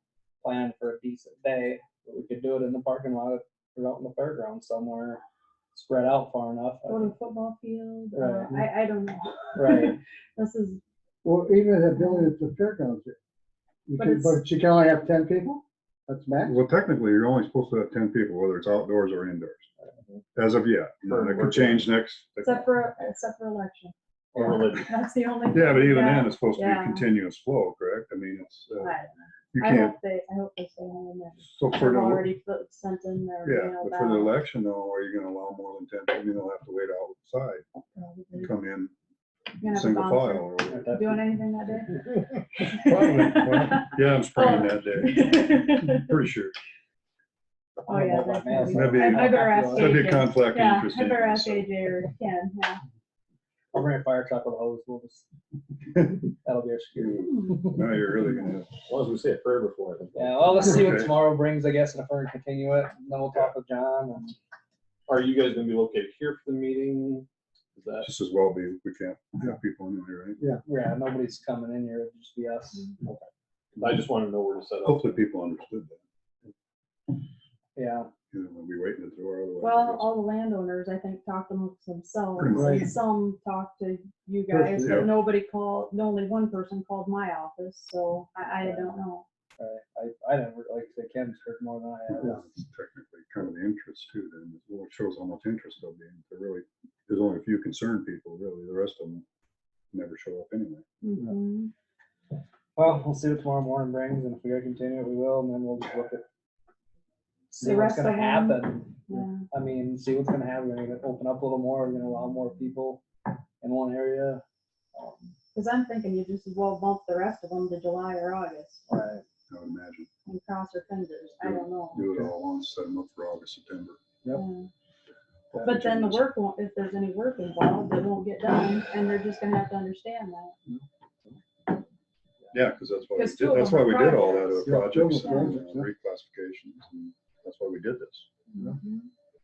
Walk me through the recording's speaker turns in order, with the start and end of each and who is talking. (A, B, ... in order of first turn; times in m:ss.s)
0:00.4-0:05.2 A
0:05.7-0:07.1 A
0:06.9-0:10.8 B
0:08.1-0:08.6 A
0:09.5-0:10.0 A
0:11.2-0:13.2 C
0:13.9-0:16.6 C
0:14.0-0:14.4 B
0:16.4-0:19.7 D
0:20.4-0:22.7 D
0:21.1-0:21.9 E
0:22.4-0:27.0 B
0:24.3-0:24.9 E
0:25.5-0:28.9 D
0:28.8-0:34.3 B
0:29.5-0:30.0 D
0:31.4-0:32.3 D
0:33.4-0:37.7 D
0:37.9-0:38.5 B
0:38.3-0:38.9 D
0:39.6-0:40.9 D
0:39.6-0:42.0 B
0:40.7-0:41.2 A
0:42.6-0:46.6 D
0:42.6-0:46.1 B
0:47.9-0:50.0 A
0:47.9-0:52.8 B
0:48.7-0:51.7 D
0:53.7-0:55.2 A
0:56.0-0:58.0 A
0:57.0-0:58.8 D
0:58.9-1:00.8 E
1:00.2-1:04.3 A
1:00.6-1:01.1 D
1:05.1-1:08.1 E
1:08.0-1:10.4 D
1:10.7-1:12.9 A
1:13.0-1:15.2 E
1:14.8-1:16.0 D
1:17.8-1:18.1 A
1:18.3-1:20.1 D
1:19.6-1:29.2 B
1:22.4-1:22.9 D
1:22.5-1:22.9 C
1:24.5-1:25.1 C
1:24.8-1:25.1 D
1:28.6-1:28.9 A
1:29.6-1:32.4 A
1:32.1-1:39.2 D
1:39.9-1:40.8 D
1:41.0-1:41.7 B
1:42.8-1:46.2 A
1:47.5-1:53.0 A
1:47.6-1:49.4 B
1:53.6-1:54.4 A
1:54.9-1:55.3 A
1:55.6-1:58.8 B
1:58.9-1:59.2 A
1:59.5-2:00.1 D
2:00.2-2:02.0 B
2:01.4-2:04.0 D
2:04.3-2:04.7 B
2:05.5-2:06.2 D
2:05.6-2:10.6 B
2:12.5-2:18.3 D
2:13.2-2:14.7 B
2:14.6-2:15.9 C
2:18.5-2:19.0 B